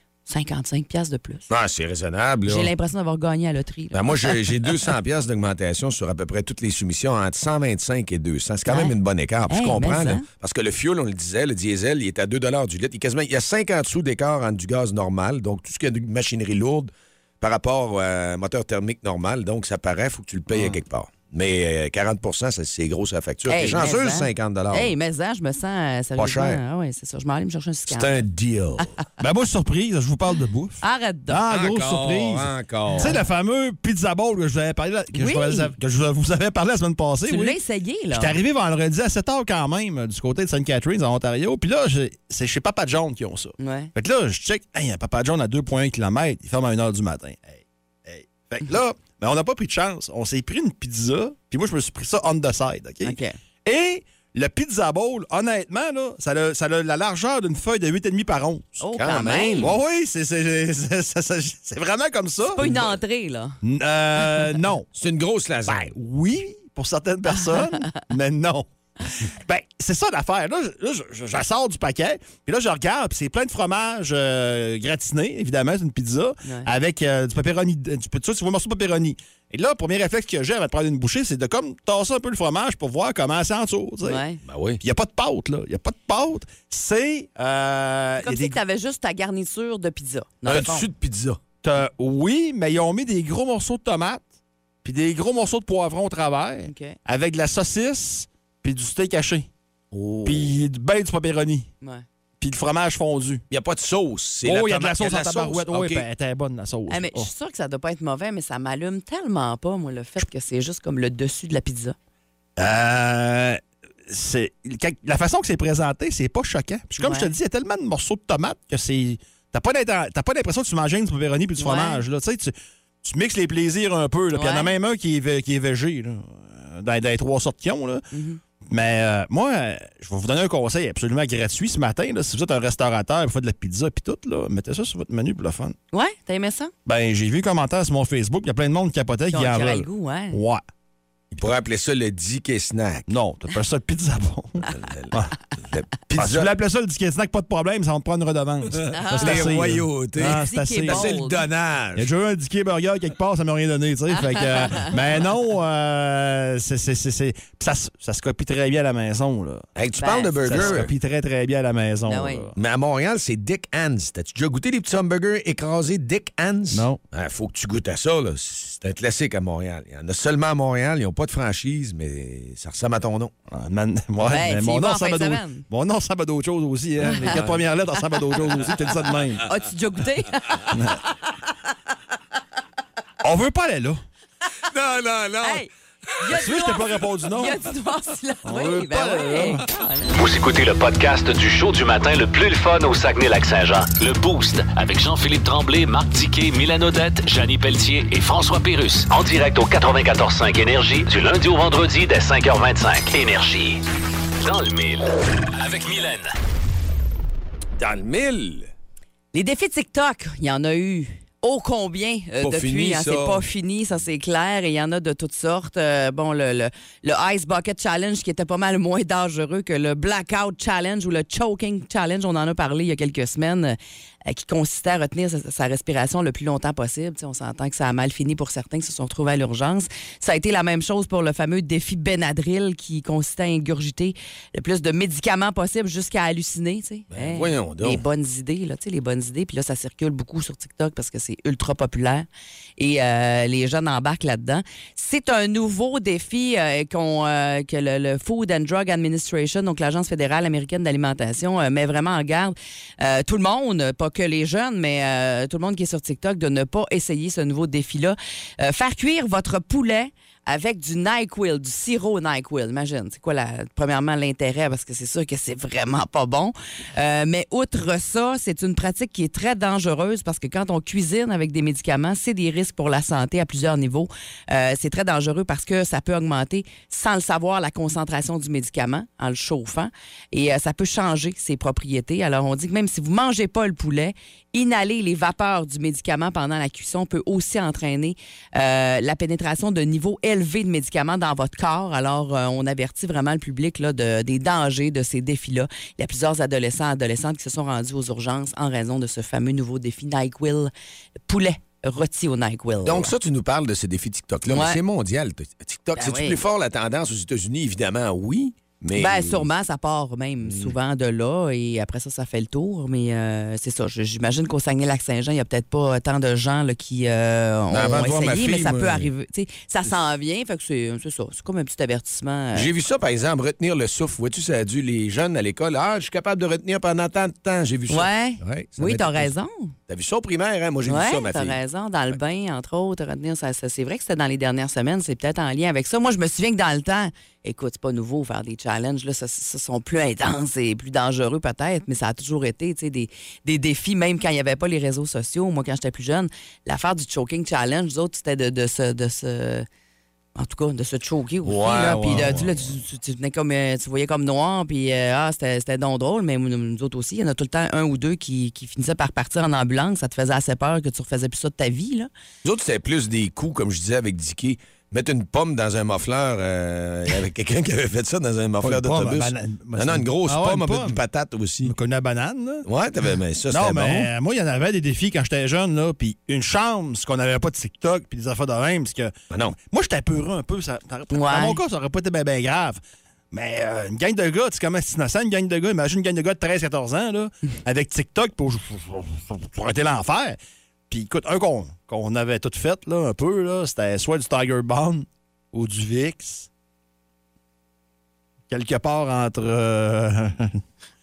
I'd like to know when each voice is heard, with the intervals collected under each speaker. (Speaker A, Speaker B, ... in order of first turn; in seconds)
Speaker A: 0.2-1.5, 2.4-4.8, 8.7-8.9, 9.5-10.2, 23.5-28.2, 30.8-31.4, 35.1-35.7, 37.3-38.4, 43.6-43.9, 53.0-53.3, 58.8-59.7, 62.5-63.6, 67.3-67.9, 84.0-84.4, 88.2-90.8, 96.7-97.0, 106.9-111.9, 117.0-117.3, 121.6-122.0, 124.3-124.7, 128.1-128.4, 135.9-136.7, 139.3-140.4, 148.9-149.7, 150.2-151.4, 160.0-160.8, 162.1-162.4, 174.3-175.6, 177.0-177.4, 179.4-180.8, 185.4-185.7, 186.2-190.1, 209.3-300.7, 301.3-303.1, 304.5-304.8, 306.0-306.4, 308.9-322.7, 327.9-329.7, 330.9-349.7, 350.4-362.1, 381.1-381.6
Speaker B: 1.5-2.7, 3.9-24.9, 26.1-26.6, 27.9-28.9, 31.5-33.1, 59.0-59.7, 64.9-65.9, 84.4-84.8, 90.5-91.4, 99.9-100.5, 103.5-106.0, 141.3-143.1, 144.7-146.5, 149.2-152.1, 159.7-160.9, 162.5-173.3, 177.2-177.5, 184.7-185.6, 207.8-208.7, 212.4-213.4, 237.1-238.0, 302.8-309.5, 310.4-310.7, 317.7-319.1, 322.5-329.3, 329.9-331.6, 351.4-352.6, 362.4-371.7, 372.6-374.1, 379.3-379.6
Speaker C: 20.5-20.8, 29.2-37.5, 38.1-58.8, 59.6-62.7, 63.6-64.9, 65.7-68.7, 69.3-84.2, 84.8-88.5, 91.6-94.2, 94.8-99.5, 100.2-101.7, 102.4-103.4, 104.4-107.3, 112.6-128.0, 128.7-135.7, 136.8-140.6, 143.1-145.3, 146.2-151.1, 151.9-159.6, 160.4-162.5, 166.7-167.0, 173.5-179.4, 180.7-181.0, 183.2-184.0, 186.3-187.5, 188.4-189.6, 351.7-352.4, 368.6-371.0, 371.6-372.6, 373.5-379.1, 379.7-382.8, 383.3-390.4, 390.9-396.5, 398.5-400.6
Speaker D: 190.1-203.8, 204.4-206.3